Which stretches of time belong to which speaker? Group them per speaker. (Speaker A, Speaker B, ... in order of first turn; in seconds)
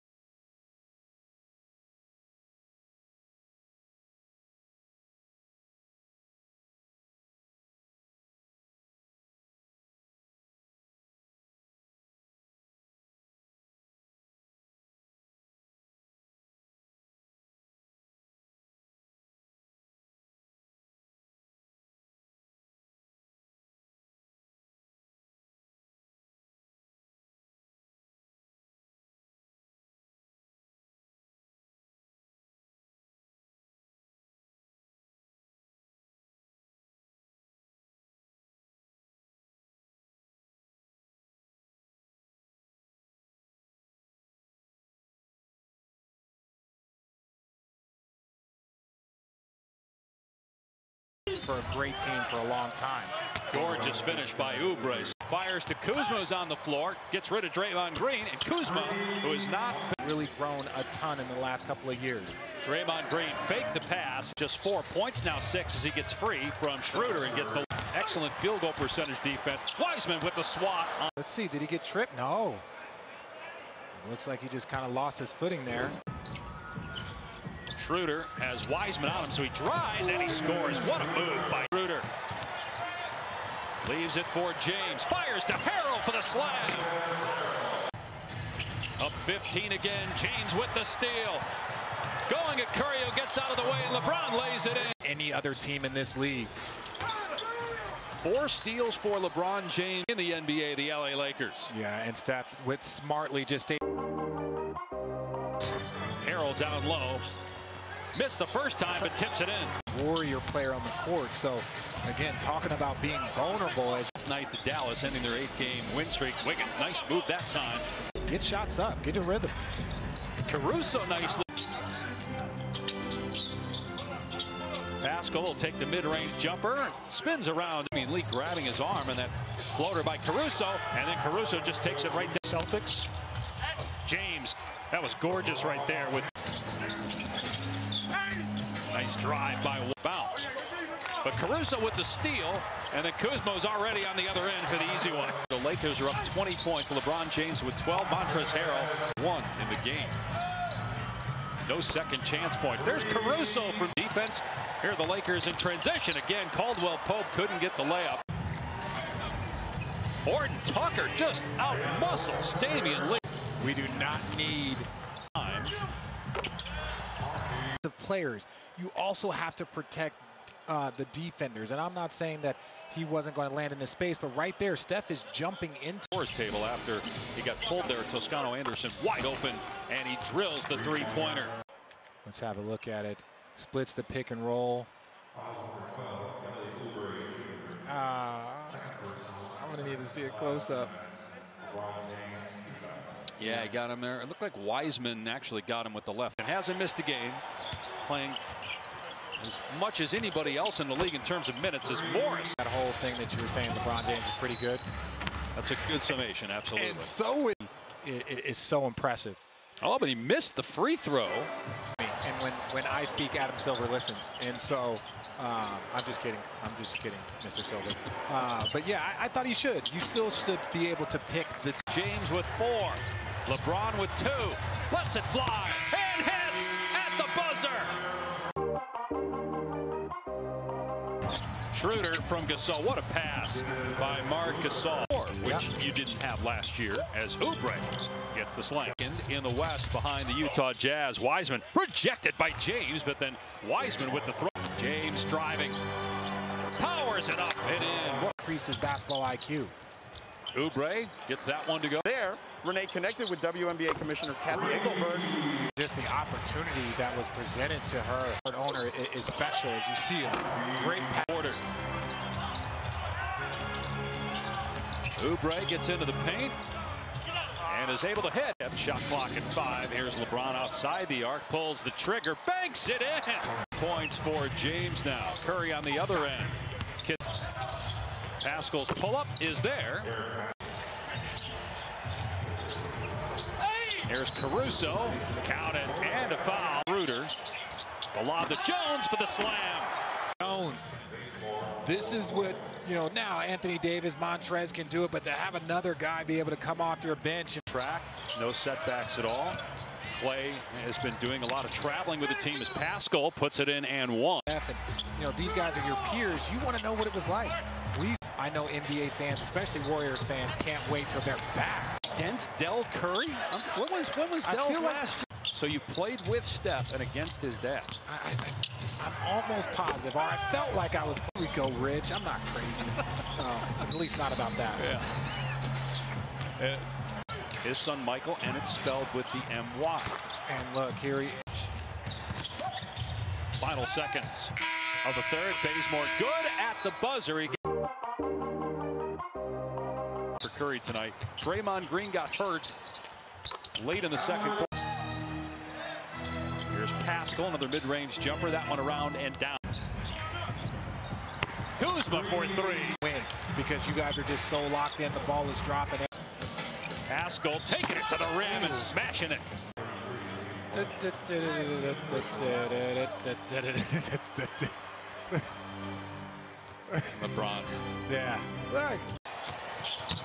Speaker A: 51.4-53.1, 60.0-62.4, 71.2-72.6, 74.0-76.0, 95.0-96.5, 101.7-103.8, 109.9-114.1, 118.2-119.5, 163.6-164.9, 167.8-176.1, 182.2-184.9, 187.8-191.0, 202.6-204.8, 206.7-209.4, 212.0-221.8, 248.2-249.7, 255.8-261.3, 290.4-290.9, 291.6-297.6, 304.5-312.0, 314.4-315.1, 318.1-325.0, 330.5-331.7, 353.0-356.1, 360.6-364.8, 366.9-367.3, 368.1-369.1
Speaker B: 53.5-59.9, 62.6-71.1, 77.8-82.1, 83.8-86.9, 89.0-91.4, 92.3-94.9, 98.2-101.7, 106.2-107.2, 108.1-109.7, 114.2-117.8, 120.4-121.4, 125.0-133.1, 134.0-136.3, 138.9-140.4, 141.2-150.2, 151.6-158.2, 160.2-163.2, 165.3-165.7, 176.1-181.5, 193.3-197.4, 198.0-198.4, 199.4-202.6, 205.5-207.1, 209.8-211.5, 221.9-227.9, 231.7-245.8, 246.7-248.3, 250.5-252.1, 261.2-261.6, 265.1-266.6, 267.6-277.2, 278.4-280.1, 283.9-287.3, 288.1-289.9, 297.7-299.6, 300.1-304.4, 312.1-317.9, 324.8-325.2, 326.6-326.9, 327.6-330.1, 333.6-334.5, 335.0-337.6, 340.4-342.8, 343.8-345.0, 346.7-349.6, 351.8-353.0, 357.1-359.4, 367.1-367.7
Speaker C: 185.3-187.8, 191.6-193.0, 252.1-255.3